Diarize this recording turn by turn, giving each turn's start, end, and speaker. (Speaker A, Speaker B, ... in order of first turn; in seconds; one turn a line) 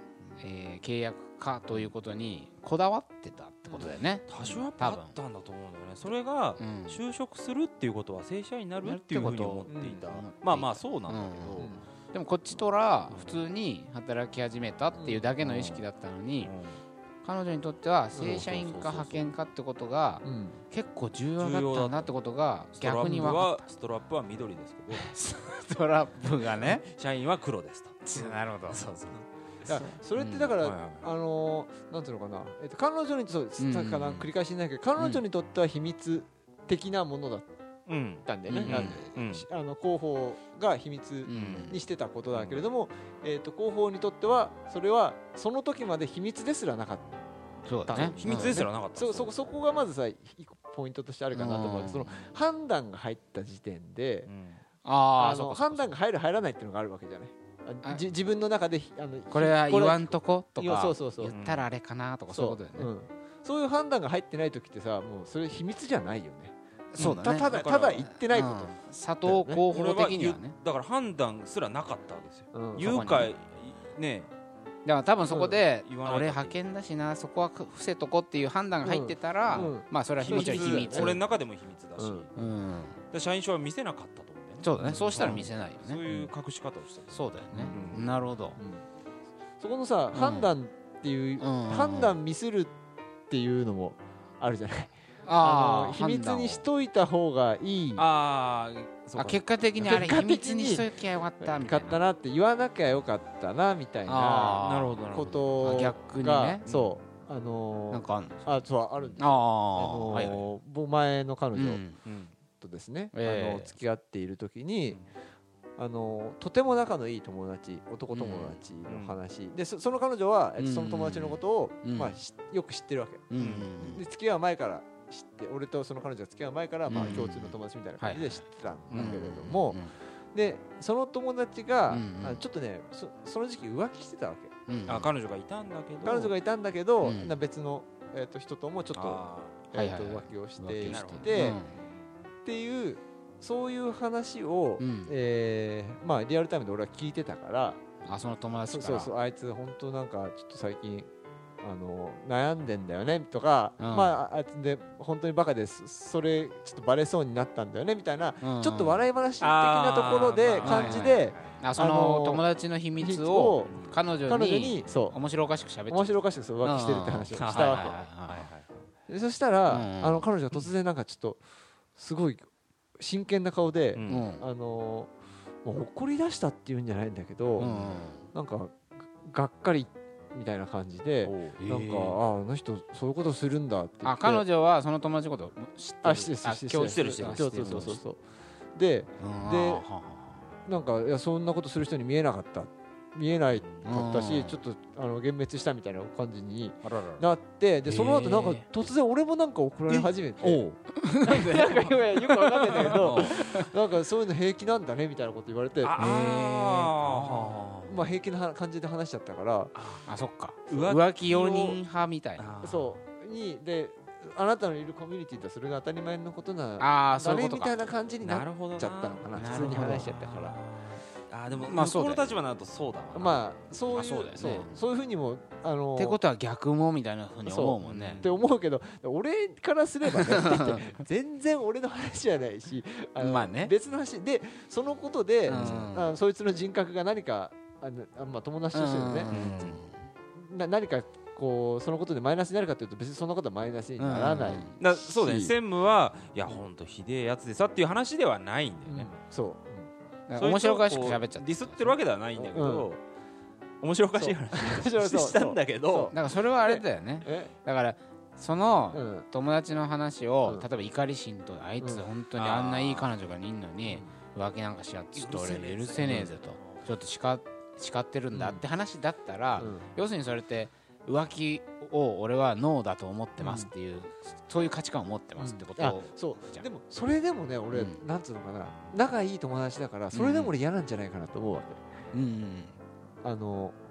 Speaker A: 0.4-5.2
Speaker B: 3.7-11.7
Speaker A: 6.6-7.0
Speaker A: 8.8-16.5
Speaker C: 9.7-10.1
Speaker C: 11.6-11.8
Speaker B: 13.1-13.4
Speaker C: 14.9-15.3
Speaker B: 15.4-15.8
Speaker B: 16.4-16.8
Speaker A: 17.2-23.7
Speaker C: 18.1-18.5
Speaker B: 18.2-19.3
Speaker C: 20.2-20.6
Speaker B: 21.4-22.1
Speaker B: 22.7-25.1
Speaker A: 25.1-26.8
Speaker B: 26.5-31.1
Speaker A: 28.1-28.8
Speaker C: 29.1-37.5
Speaker A: 29.7-30.0
Speaker A: 33.6-34.3
Speaker B: 35.0-35.2
Speaker B: 37.9-39.5
Speaker C: 38.2-47.1
Speaker A: 38.6-39.0
Speaker A: 41.3-41.8
Speaker B: 41.3-41.8
Speaker B: 42.3-42.6
Speaker A: 47.7-48.6
Speaker C: 47.9-54.3
Speaker B: 47.9-49.4
Speaker A: 51.3-52.1
Speaker B: 54.3-54.6
Speaker A: 54.8-55.9
Speaker C: 55.2-61.4
Speaker A: 59.3-62.9
Speaker B: 61.3-61.7
Speaker C: 62.3-69.7
Speaker A: 66.9-70.5
Speaker B: 67.0-68.1
Speaker B: 69.7-74.3
Speaker C: 72.5-72.9
Speaker A: 72.8-73.3
Speaker A: 74.8-81.2
Speaker C: 75.3-75.6
Speaker B: 75.8-76.6
Speaker C: 78.8-81.2
Speaker B: 79.5-82.3
Speaker C: 82.0-82.3
Speaker A: 82.3-83.0
Speaker B: 83.1-88.1
Speaker A: 84.6-86.0
Speaker C: 84.8-85.5
Speaker A: 87.1-88.6
Speaker C: 87.5-88.0
Speaker C: 88.6-88.8
Speaker C: 89.6-92.7
Speaker A: 90.1-90.5
Speaker A: 91.4-92.2
Speaker C: 93.3-98.1
Speaker A: 95.2-96.7
Speaker B: 98.0-99.4
Speaker A: 99.2-102.0
Speaker C: 99.8-111.8
Speaker A: 104.1-105.0
Speaker B: 104.6-105.5
Speaker A: 105.6-106.6
Speaker B: 106.7-107.0
Speaker A: 107.9-108.7
Speaker A: 109.2-110.4
Speaker A: 111.5-112.0
Speaker B: 112.0-112.3
Speaker C: 112.6-115.0
Speaker A: 113.1-113.7
Speaker C: 115.8-123.3
Speaker B: 118.8-119.2
Speaker A: 120.6-122.2
Speaker A: 123.3-124.0
Speaker B: 123.4-123.8
Speaker C: 123.8-134.5
Speaker A: 126.9-129.9
Speaker B: 128.9-129.2
Speaker A: 131.9-132.4
Speaker A: 134.7-135.1
Speaker B: 134.9-136.3
Speaker C: 136.0-141.6
Speaker A: 137.0-137.4
Speaker B: 138.9-139.6
Speaker A: 139.7-141.8
Speaker B: 140.9-142.3
Speaker C: 142.4-147.8
Speaker A: 144.8-145.2
Speaker A: 148.1-149.1
Speaker C: 148.7-151.1
Speaker C: 151.6-162.4
Speaker A: 153.8-154.1
Speaker A: 158.4-159.0
Speaker B: 159.4-161.6
Speaker A: 160.6-168.5
Speaker C: 163.0-165.2
Speaker B: 163.7-164.0
Speaker C: 165.9-168.0
Speaker B: 167.4-168.8
Speaker C: 169.1-171.4
Speaker A: 169.7-170.3
Speaker C: 172.0-172.5
Speaker C: 173.0-175.1
Speaker B: 173.9-174.3
Speaker A: 174.1-174.4
Speaker C: 175.6-177.8
Speaker A: 177.6-178.2
Speaker B: 177.6-177.9
Speaker C: 178.3-184.4
Speaker B: 181.2-181.6
Speaker A: 181.6-182.2
Speaker A: 184.0-188.0
Speaker C: 186.0-188.2
Speaker B: 186.8-188.0
Speaker C: 188.8-189.9
Speaker A: 189.2-190.4
Speaker C: 190.7-200.6
Speaker B: 193.5-193.9
Speaker A: 193.8-194.6
Speaker B: 196.8-197.3
Speaker A: 197.8-198.7
Speaker B: 199.9-200.8
Speaker A: 201.0-203.7
Speaker C: 201.2-206.0
Speaker B: 202.8-203.3
Speaker B: 205.8-208.1
Speaker A: 206.0-207.6
Speaker C: 207.8-209.7
Speaker B: 209.8-210.1
Speaker A: 210.1-212.5
Speaker B: 210.7-211.8
Speaker B: 212.4-213.0
Speaker C: 212.6-220.6
Speaker A: 216.8-217.8
Speaker B: 218.2-223.6
Speaker A: 219.3-220.2
Speaker A: 221.5-222.2
Speaker C: 223.1-226.2
Speaker A: 223.9-224.8
Speaker A: 226.0-228.3
Speaker C: 227.4-239.3
Speaker B: 227.8-228.4
Speaker A: 230.2-230.8
Speaker A: 233.2-233.7
Speaker A: 235.5-236.1
Speaker B: 235.5-235.8
Speaker A: 238.7-240.0
Speaker B: 239.3-239.8
Speaker C: 240.3-245.6
Speaker A: 244.0-244.8
Speaker B: 244.8-249.2
Speaker C: 248.9-249.9
Speaker A: 250.3-252.0
Speaker B: 250.4-253.0
Speaker C: 252.4-252.9
Speaker B: 253.8-256.1
Speaker C: 254.2-257.5
Speaker A: 256.1-276.7
Speaker C: 258.9-259.3
Speaker C: 261.8-262.1
Speaker B: 262.4-263.1
Speaker C: 263.9-264.1
Speaker B: 265.1-266.9
Speaker C: 266.1-266.3
Speaker C: 268.3-268.6
Speaker C: 269.6-269.9
Speaker C: 273.4-273.7
Speaker C: 275.4-281.8
Speaker A: 277.7-278.0
Speaker A: 280.1-280.5
Speaker A: 282.1-282.8
Speaker C: 283.2-283.8